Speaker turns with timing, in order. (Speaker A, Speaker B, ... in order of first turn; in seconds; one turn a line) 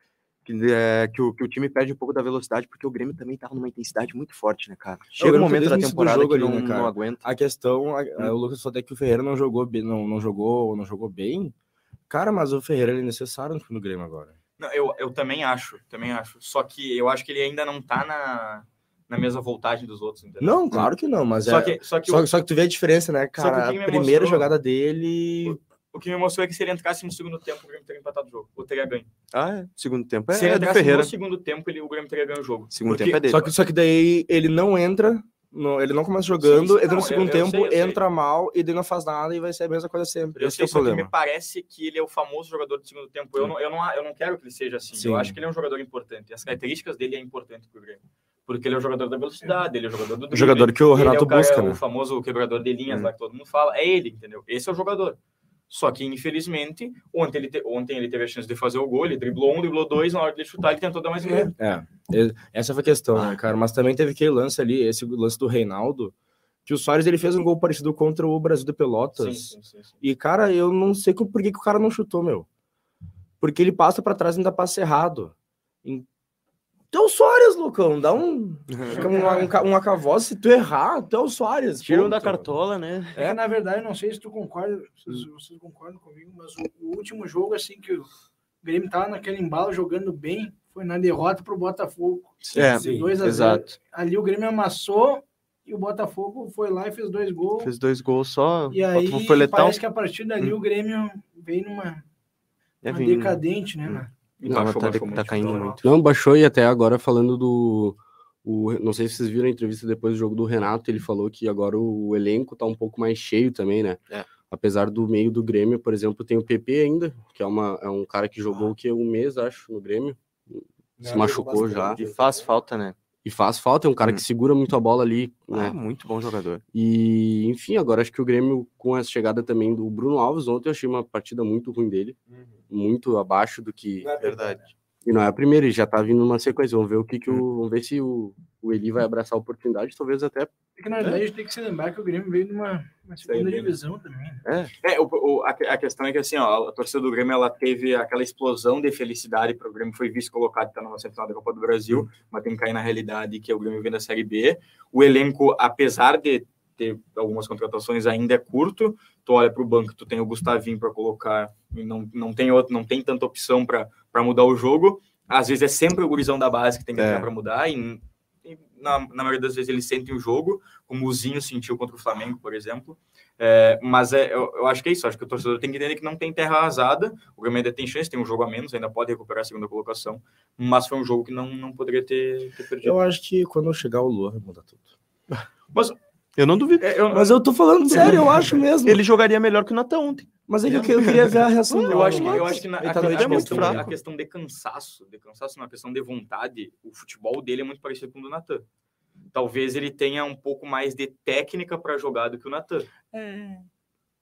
Speaker A: 0.4-7.2
Speaker B: 5.2-11.5
Speaker B: 12.1-14.3
Speaker C: 14.6-20.9
Speaker B: 20.4-25.6
Speaker C: 21.4-22.3
Speaker C: 23.4-24.5
Speaker C: 25.4-29.1
Speaker A: 29.3-31.1
Speaker C: 30.3-33.2
Speaker A: 32.7-33.5
Speaker B: 33.3-41.1
Speaker C: 36.4-38.0
Speaker C: 40.3-55.2
Speaker B: 44.9-45.4
Speaker B: 50.3-51.8
Speaker C: 55.7-61.5
Speaker D: 61.2-61.5
Speaker B: 61.6-66.1
Speaker B: 66.7-72.5
Speaker C: 69.2-69.9
Speaker B: 73.4-76.1
Speaker B: 76.9-82.5
Speaker A: 78.7-79.2
Speaker D: 78.9-79.5
Speaker A: 81.8-83.2
Speaker D: 83.2-88.1
Speaker D: 88.6-97.7
Speaker C: 92.4-92.7
Speaker A: 92.5-93.7
Speaker B: 92.6-93.2
Speaker A: 97.6-99.8
Speaker D: 98.7-102.0
Speaker A: 102.8-105.9
Speaker D: 102.9-104.1
Speaker C: 104.4-105.8
Speaker E: 105.8-122.0
Speaker B: 121.0-122.2
Speaker A: 121.7-123.0
Speaker E: 123.2-125.8
Speaker A: 125.5-126.6
Speaker E: 126.7-132.2
Speaker E: 132.7-134.2
Speaker B: 134.0-134.6
Speaker A: 134.1-134.6
Speaker E: 135.0-140.5
Speaker D: 140.8-144.4
Speaker C: 143.2-143.7
Speaker A: 144.4-144.7
Speaker C: 144.8-183.0
Speaker A: 167.0-167.3
Speaker B: 182.8-184.8
Speaker A: 186.3-187.0
Speaker C: 186.8-187.4
Speaker B: 187.1-189.0
Speaker A: 187.9-188.2
Speaker C: 188.0-188.2
Speaker A: 188.8-193.9
Speaker B: 190.5-193.9
Speaker C: 191.8-198.6
Speaker C: 199.3-203.6